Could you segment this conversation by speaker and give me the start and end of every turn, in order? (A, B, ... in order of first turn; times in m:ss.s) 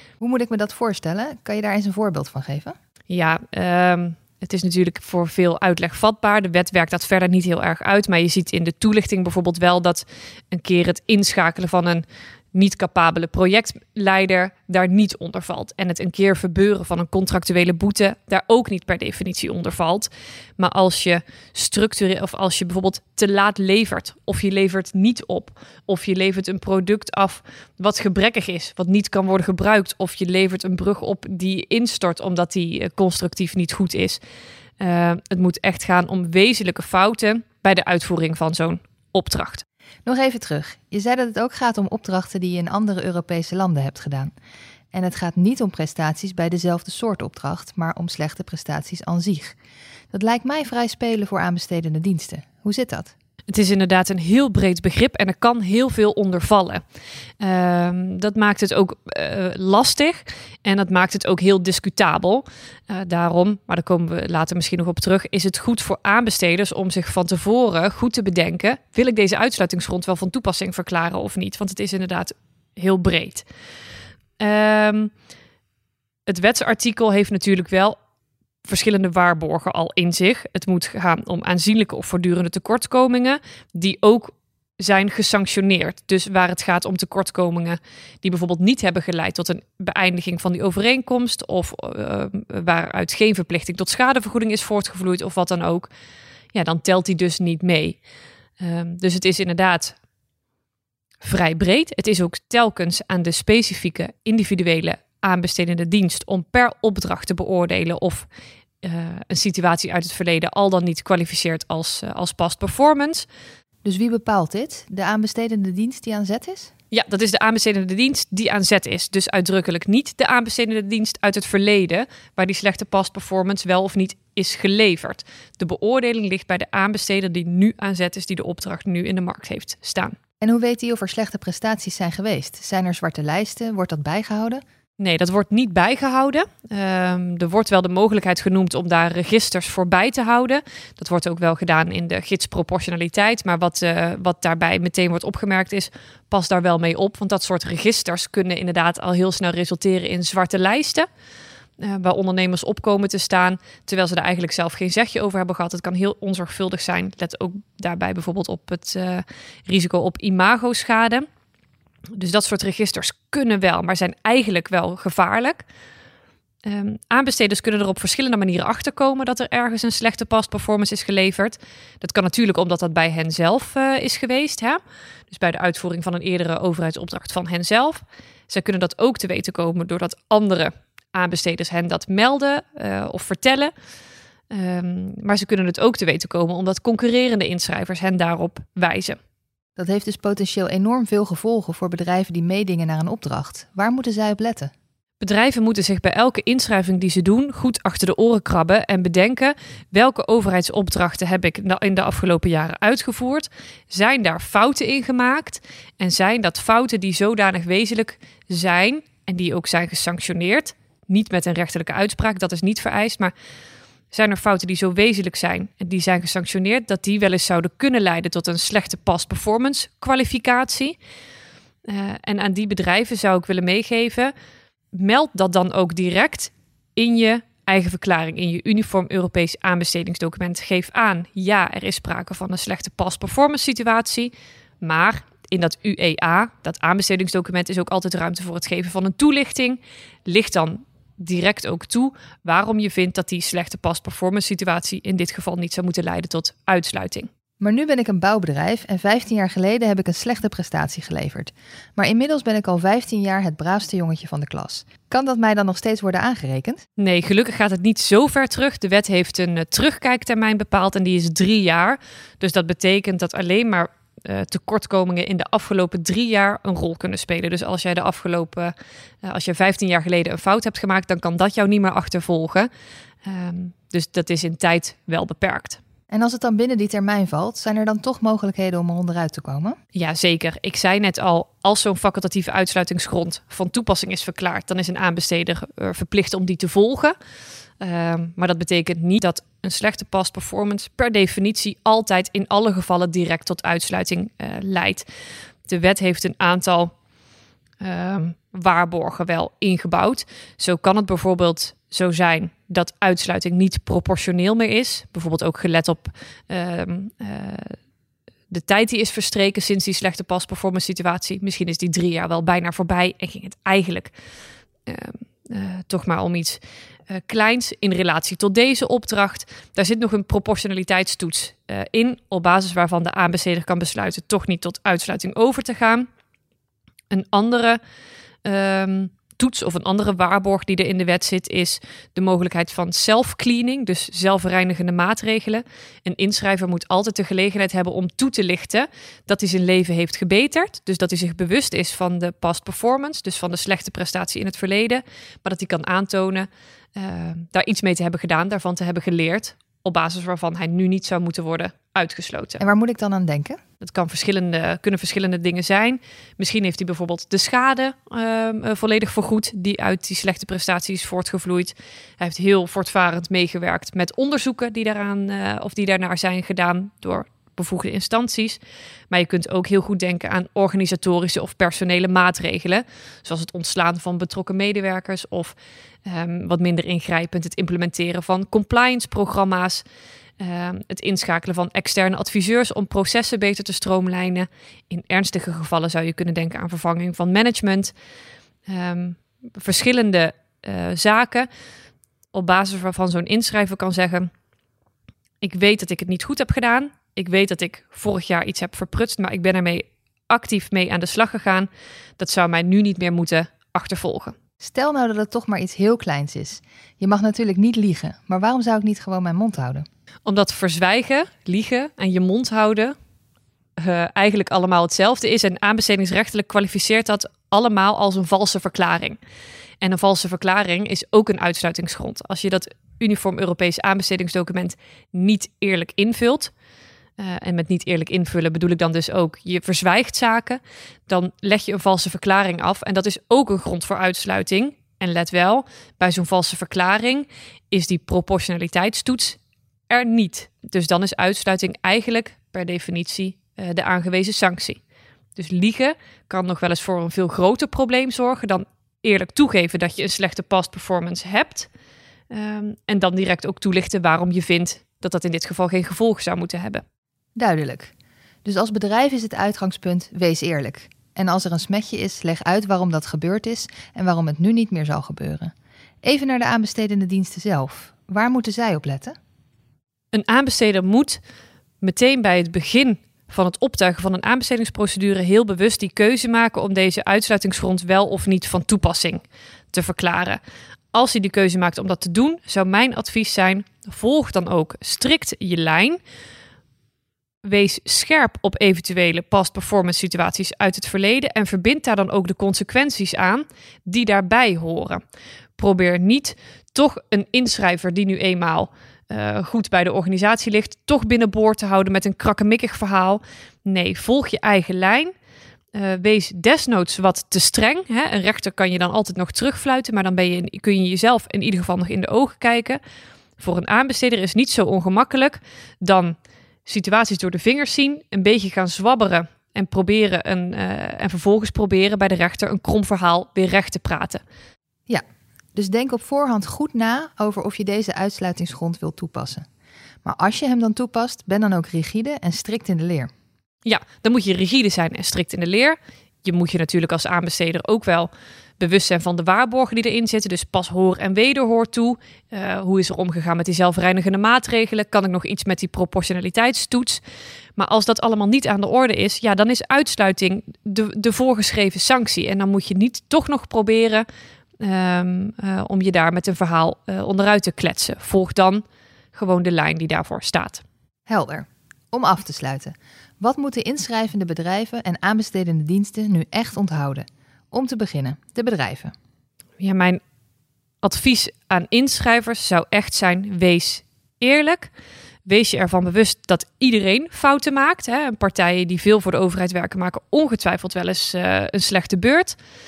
0:00.2-0:02.7 A
0:03.1-0:34.2 B
0:34.8-0:39.6 B
0:40.0-0:44.3 A
0:44.9-0:49.6 A
0:50.1-0:53.1 A
0:53.5-0:56.8 B
0:57.4-1:13.4 B
1:14.4-1:15.1 B
1:16.2-1:18.0 B
1:18.6-1:35.9 B
1:36.5-1:38.0 B
1:38.6-1:40.0 B
1:41.2-1:48.3 B
1:48.8-1:53.3 B
1:53.8-1:56.7 A
1:56.9-2:10.2 B
2:10.4-2:14.6 A
2:15.0-2:31.1 B
2:31.8-2:41.2 B
2:42.1-2:45.6 B
2:46.6-3:03.7 B
3:04.5-3:09.2 B
3:09.8-3:14.7 A
3:15.2-3:33.3 B
3:34.1-3:41.0 B
3:41.9-3:44.3 B
3:44.9-4:07.3 B
4:07.6-4:16.8 A
4:17.0-4:28.7 B
4:29.2-4:32.7 B
4:33.2-4:35.8 B
4:36.1-4:39.8 A
4:39.9-4:47.1 B
4:47.8-4:55.1 B
4:55.7-4:56.9 B
4:57.8-5:07.8 B
5:08.5-5:14.1 B
5:14.8-5:26.0 B
5:27.1-5:27.8 B
5:28.4-5:52.6 B
5:52.6-5:53.6 A
5:53.8-6:08.6 B
6:09.1-6:19.8 B
6:20.4-6:27.9 B
6:28.7-6:31.5 B
6:32.3-6:34.3 B
6:35.4-6:44.3 B
6:44.6-6:49.8 A
6:50.2-6:52.9 B
6:53.8-6:59.2 B
6:59.8-7:06.5 B
7:07.2-7:19.4 B
7:19.9-7:24.8 B
7:25.4-7:31.7 B
7:32.3-7:36.8 B
7:37.4-7:37.9 A
7:38.4-7:45.5 A
7:46.0-7:49.1 A
7:50.1-7:51.2 B
7:51.8-8:00.4 B
8:00.9-8:06.0 B
8:07.4-8:15.0 B
8:15.6-8:25.1 B
8:25.7-8:32.8 B
8:33.4-8:44.2 B
8:45.6-8:49.4 A
8:50.0-8:53.1 A
8:53.6-9:07.0 B
9:07.6-9:14.0 B
9:14.6-9:20.6 B
9:21.1-9:28.9 A
9:29.6-9:30.0 B
9:30.8-9:34.7 B
9:35.2-9:42.4 B